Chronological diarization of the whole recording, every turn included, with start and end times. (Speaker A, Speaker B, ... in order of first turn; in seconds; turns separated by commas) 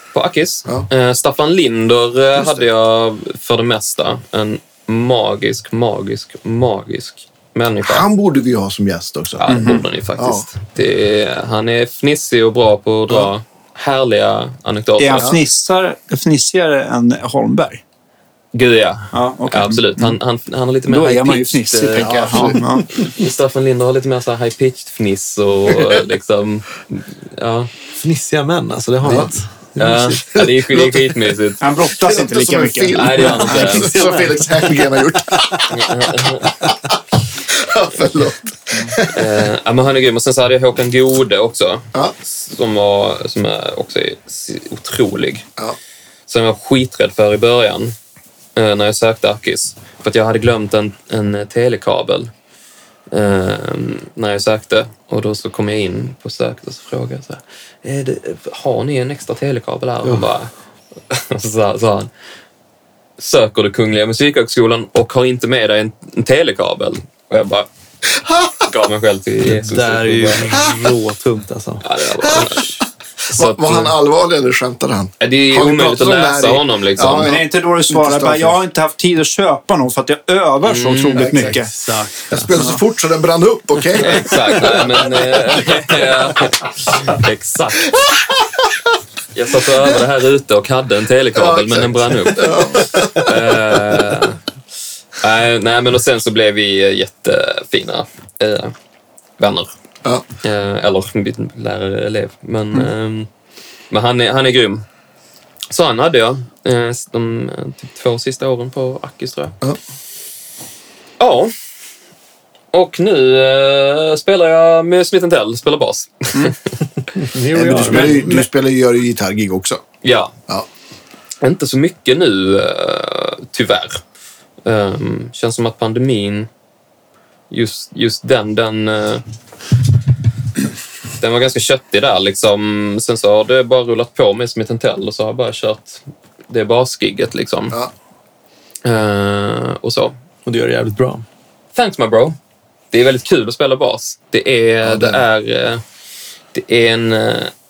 Speaker A: 0.1-8.1, Speaker B: 2.4-2.7, Speaker B: 7.8-9.5, Speaker A: 9.4-15.3, Speaker C: 9.5-9.8, Speaker B: 10.2-10.5, Speaker C: 15.0-17.8, Speaker A: 18.5-27.7, Speaker C: 19.1-20.2, Speaker C: 20.9-23.1, Speaker B: 22.0-22.6, Speaker B: 25.7-26.0, Speaker D: 28.0-30.2, Speaker B: 29.0-29.3, Speaker A: 29.8-31.6, Speaker B: 30.4-31.2, Speaker C: 31.6-33.9, Speaker B: 31.9-39.5, Speaker A: 33.0-34.0, Speaker D: 33.6-35.7, Speaker A: 35.7-36.6, Speaker D: 36.5-36.7, Speaker A: 39.1-45.5, Speaker A: 46.3-47.9, Speaker A: 48.6-52.3, Speaker A: 53.1-60.5, Speaker A: 61.1-62.1, Speaker A: 63.2-67.7, Speaker B: 68.1-68.7, Speaker A: 68.7-70.5, Speaker D: 69.4-71.8, Speaker B: 70.5-70.9, Speaker A: 71.8-74.0, Speaker B: 72.2-78.6, Speaker A: 75.2-77.4, Speaker C: 77.2-81.7, Speaker A: 80.6-81.5, Speaker B: 81.1-81.6, Speaker D: 81.5-82.6, Speaker B: 82.3-86.0, Speaker A: 83.9-88.1, Speaker B: 88.0-88.3, Speaker A: 89.3-94.4, Speaker B: 91.3-93.8, Speaker A: 95.2-98.7, Speaker A: 99.4-99.7, Speaker A: 100.4-103.3, Speaker A: 103.9-104.8, Speaker A: 105.7-109.6, Speaker A: 111.2-111.5, Speaker A: 112.7-116.8, Speaker D: 117.2-118.4, Speaker B: 117.5-119.8, Speaker C: 117.6-118.5, Speaker A: 120.0-120.3, Speaker A: 121.4-124.0, Speaker A: 124.6-126.5, Speaker A: 127.5-129.2, Speaker A: 131.2-137.8, Speaker A: 138.8-140.1, Speaker D: 140.5-141.2, Speaker A: 141.8-142.4, Speaker A: 142.9-145.8, Speaker B: 144.8-145.2, Speaker A: 146.5-147.5